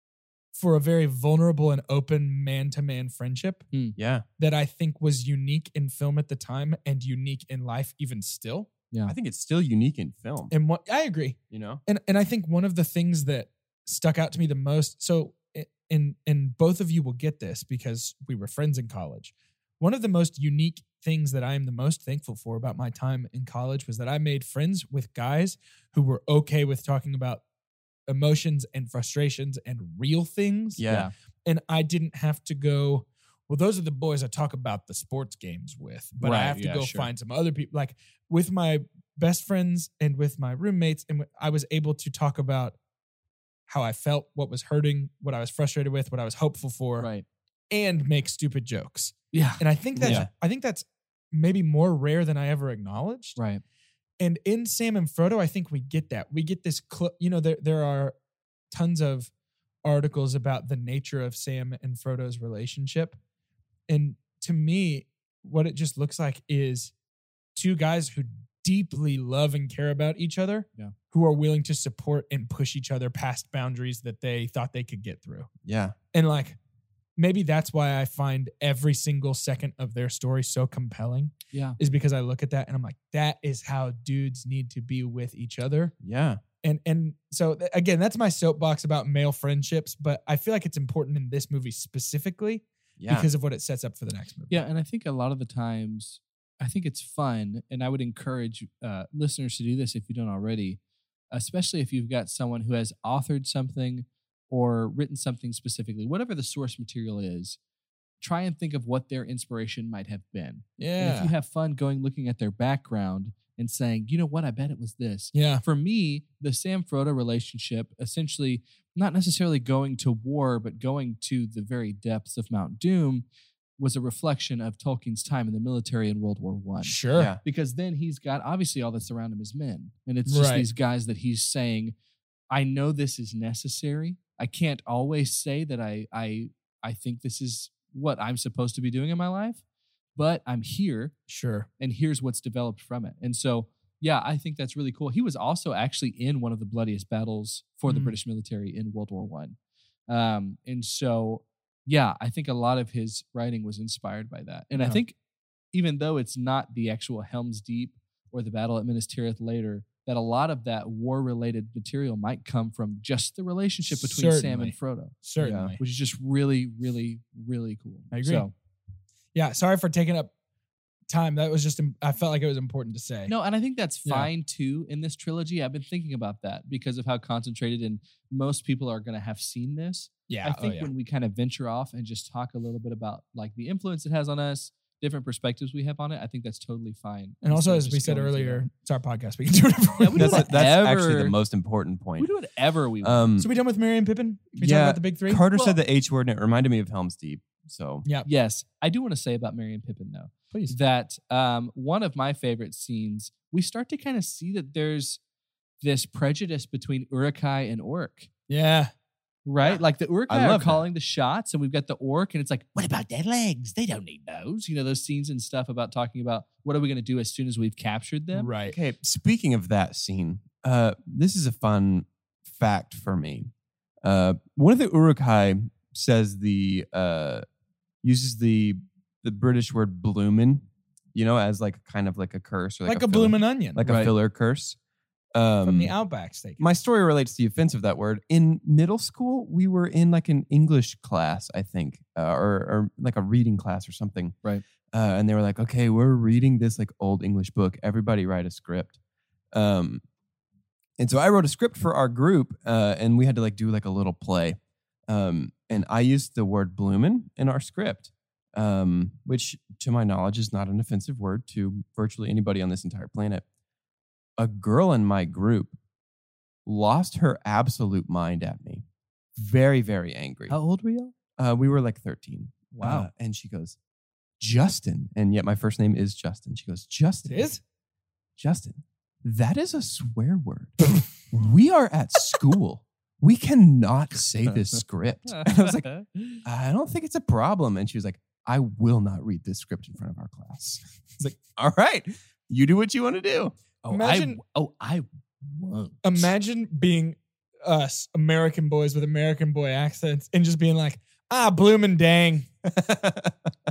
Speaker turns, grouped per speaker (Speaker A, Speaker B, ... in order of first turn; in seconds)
Speaker A: 0.5-3.7, 4.4-8.7, 10.5-27.4, 28.1-30.8, 31.4-42.8, 43.7-47.1, 47.7-53.4, 54.2-58.1, 58.7-59.3, 59.8-63.2, 63.9-66.9, 67.5-75.5, 76.1-76.6, 77.2-85.9, 86.6-94.6, 110.8-111.3, 115.3-115.6, 126.8-127.3, 130.3-130.7, 141.3-141.7, 147.9-148.1, 154.8-155.0, 163.9-165.8, 168.1-168.4, 169.3-170.3, 171.1-173.3, 174.0-174.3, 180.3-180.9, 187.4-190.5, 193.4-195.4, 200.5-200.8, 208.5-208.9, 218.3-218.8, 232.8-233.9, 235.6-236.7, 277.2-277.6, 293.9-294.4, 296.0-302.5
Speaker B: 4.0-4.3, 9.1-10.5, 11.5-11.8, 30.8-31.1, 50.0-50.3, 75.6-76.0, 86.0-86.4, 93.0-93.3, 127.1-127.4, 165.4-165.8, 190.1-192.3, 193.0-193.5, 194.6-198.0, 209.6-210.8, 218.7-223.5, 224.0-227.4, 228.0-234.8, 235.3-235.9, 236.6-244.3, 244.9-248.9, 249.5-250.0, 251.0-263.4, 264.4-265.8, 266.6-268.8, 269.4-270.6, 271.4-273.8, 274.4-277.4, 278.4-285.9, 286.4-290.8, 291.4-293.5, 302.7-303.4
Speaker C: 30.9-31.1, 36.2-37.1, 47.0-47.2, 49.3-50.2, 53.4-53.6, 81.5-81.8, 94.5-100.8, 101.3-107.6, 108.2-123.2, 123.8-131.9, 132.5-139.6, 140.2-141.1, 141.8-149.6, 150.1-155.1, 155.7-165.2, 165.8-168.5, 173.3-188.6, 190.0-191.4, 192.2-193.3, 195.5-195.8, 198.2-205.2, 205.8-208.3, 209.4-218.5, 233.8-234.1, 270.5-271.1, 272.8-273.1, 285.3-286.4, 293.8-296.3